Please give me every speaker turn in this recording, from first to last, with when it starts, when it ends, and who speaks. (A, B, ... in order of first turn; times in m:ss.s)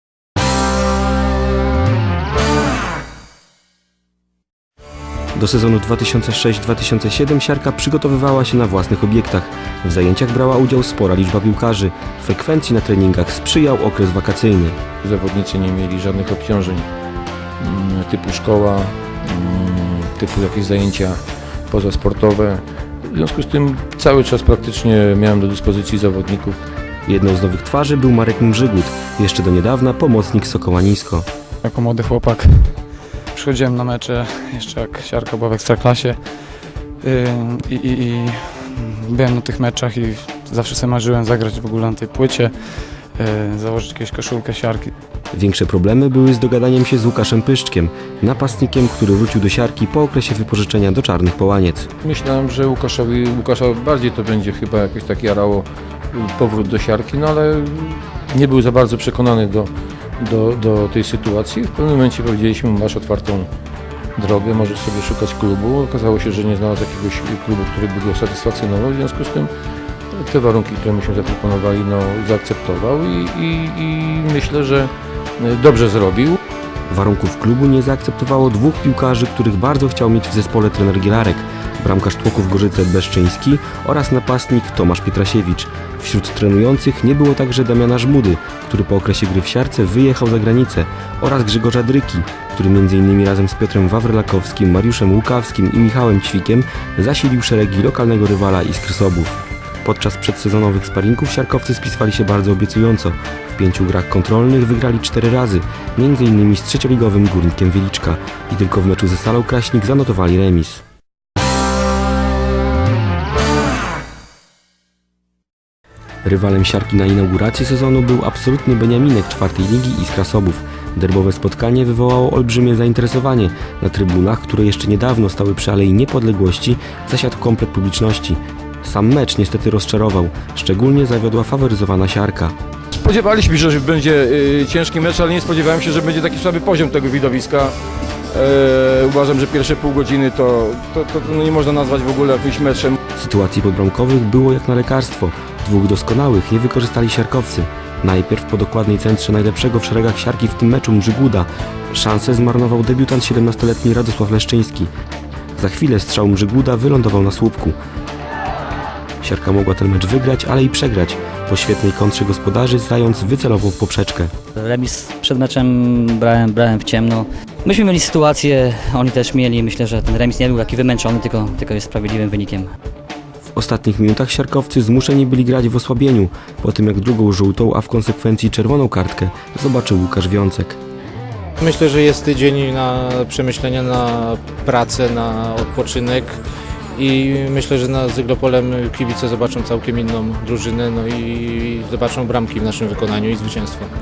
0:05.4-0:14.8 A
0:15.0-0:16.9 B
0:17.6-0:21.2 B
0:21.7-0:26.6 B
0:27.0-0:31.3 A
0:31.6-0:44.9 C
0:45.3-0:51.9 A
0:52.0-1:03.5 B
1:04.2-1:09.5 B
1:10.1-1:16.4 B
1:16.9-1:50.8 A
1:56.2-2:12.5 A
2:12.9-2:17.7 B
2:18.3-2:23.0 B
2:23.2-2:34.9 A
2:35.6-2:37.8 A
2:39.2-2:44.3 A
2:44.6-2:52.7 D
2:53.5-3:00.8 A
3:01.6-3:06.4 E
3:06.9-3:13.9 E